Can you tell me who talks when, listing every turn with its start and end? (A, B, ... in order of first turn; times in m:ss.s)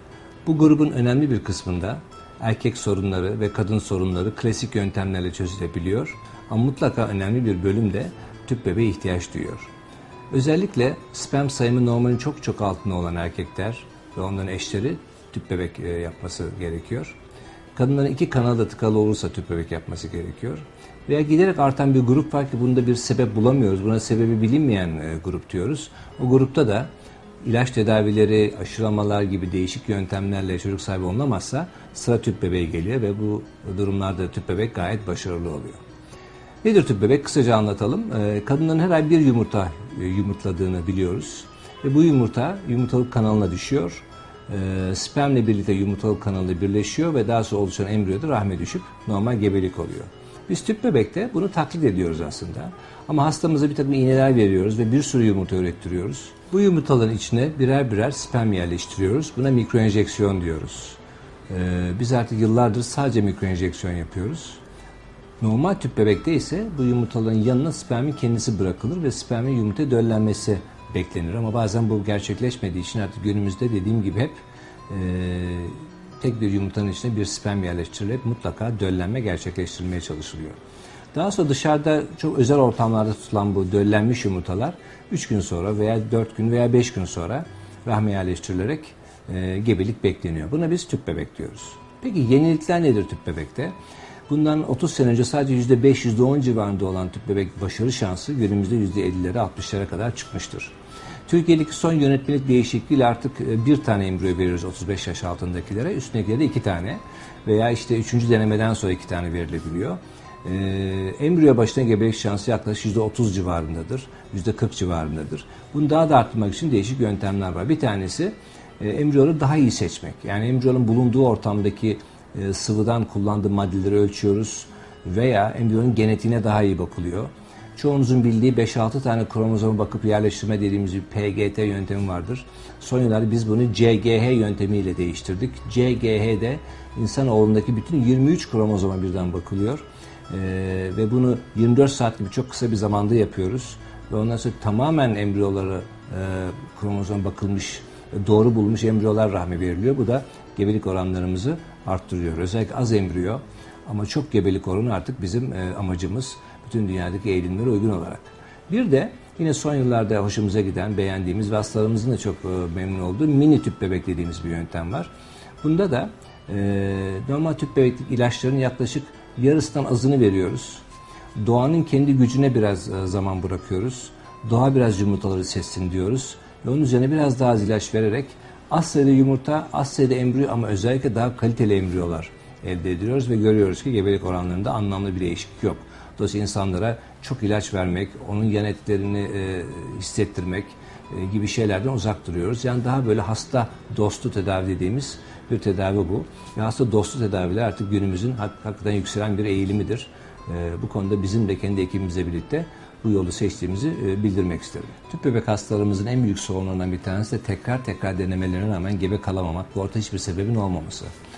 0:00.4-0:09.7 A
0:10.3-0:17.2 A
0:17.8-0:26.9 A
0:27.4-0:35.8 A
0:36.6-1:01.0 A
1:01.5-1:04.6 A
1:05.4-1:14.4 A
1:14.9-1:20.6 A
1:21.1-1:33.8 A
1:34.3-1:40.7 A
1:41.3-2:45.1 A
2:45.6-2:50.8 A
2:51.4-3:31.1 A